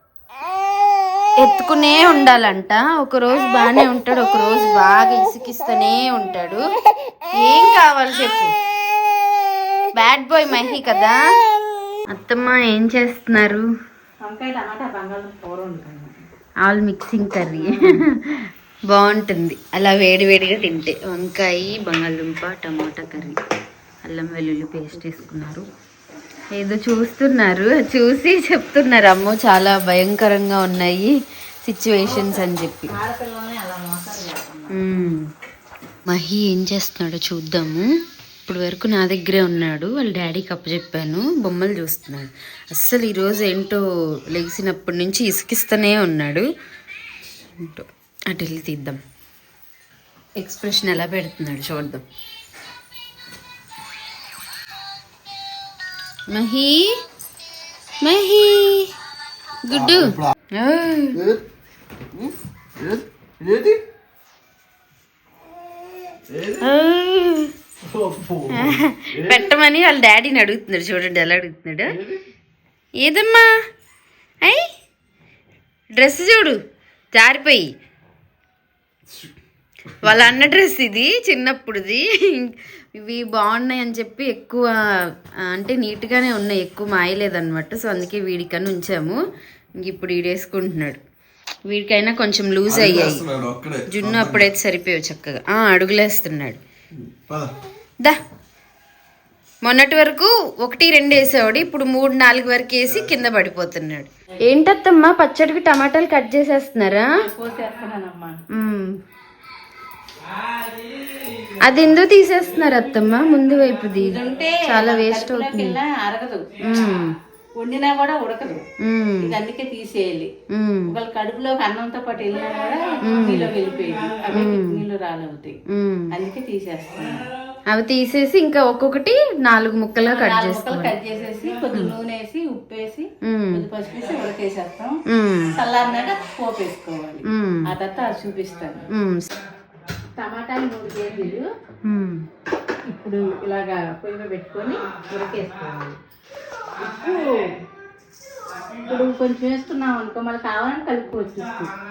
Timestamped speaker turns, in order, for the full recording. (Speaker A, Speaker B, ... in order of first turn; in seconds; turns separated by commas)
Speaker A: 1.4-6.7, Speaker A: 7.4-8.5, Speaker A: 9.9-11.2, Speaker A: 12.1-13.6, Speaker B: 14.2-16.2, Speaker A: 16.6-23.4, Speaker B: 17.6-18.1, Speaker A: 24.1-25.6, Speaker A: 26.6-31.1, Speaker A: 31.6-32.9, Speaker B: 32.1-34.7, Speaker A: 34.7-35.2, Speaker A: 36.1-37.9, Speaker A: 38.5-46.4, Speaker A: 47.6-49.0, Speaker A: 50.4-52.0, Speaker A: 56.3-56.9, Speaker A: 58.0-58.9, Speaker A: 59.6-61.2, Speaker C: 62.1-63.8, Speaker C: 66.3-66.7, Speaker A: 66.6-67.5, Speaker C: 67.9-69.5, Speaker A: 68.6-71.9, Speaker C: 71.9-72.2, Speaker A: 73.0-73.5, Speaker A: 76.0-76.6, Speaker A: 77.1-77.7, Speaker A: 80.0-84.7, Speaker A: 85.5-89.2, Speaker A: 89.8-91.0, Speaker A: 91.7-93.2, Speaker C: 92.7-94.5, Speaker A: 93.9-96.6, Speaker C: 96.9-97.5, Speaker A: 99.6-107.1, Speaker C: 102.9-103.2, Speaker B: 107.2-108.4, Speaker A: 108.5-108.9, Speaker A: 111.6-115.8, Speaker B: 114.0-116.5, Speaker A: 116.6-117.1, Speaker B: 117.5-118.6, Speaker A: 118.8-119.3, Speaker B: 119.2-120.3, Speaker A: 120.5-121.0, Speaker B: 120.9-125.6, Speaker A: 123.0-123.5, Speaker A: 124.3-124.8, Speaker A: 125.7-126.1, Speaker B: 126.1-127.2, Speaker A: 127.7-130.9, Speaker B: 130.0-134.9, Speaker A: 133.2-133.7, Speaker A: 135.1-135.6, Speaker B: 135.6-138.8, Speaker A: 137.3-137.7, Speaker A: 138.9-139.3, Speaker B: 140.2-141.4, Speaker A: 141.9-142.2, Speaker B: 142.8-146.0, Speaker B: 146.8-147.6, Speaker B: 148.8-151.7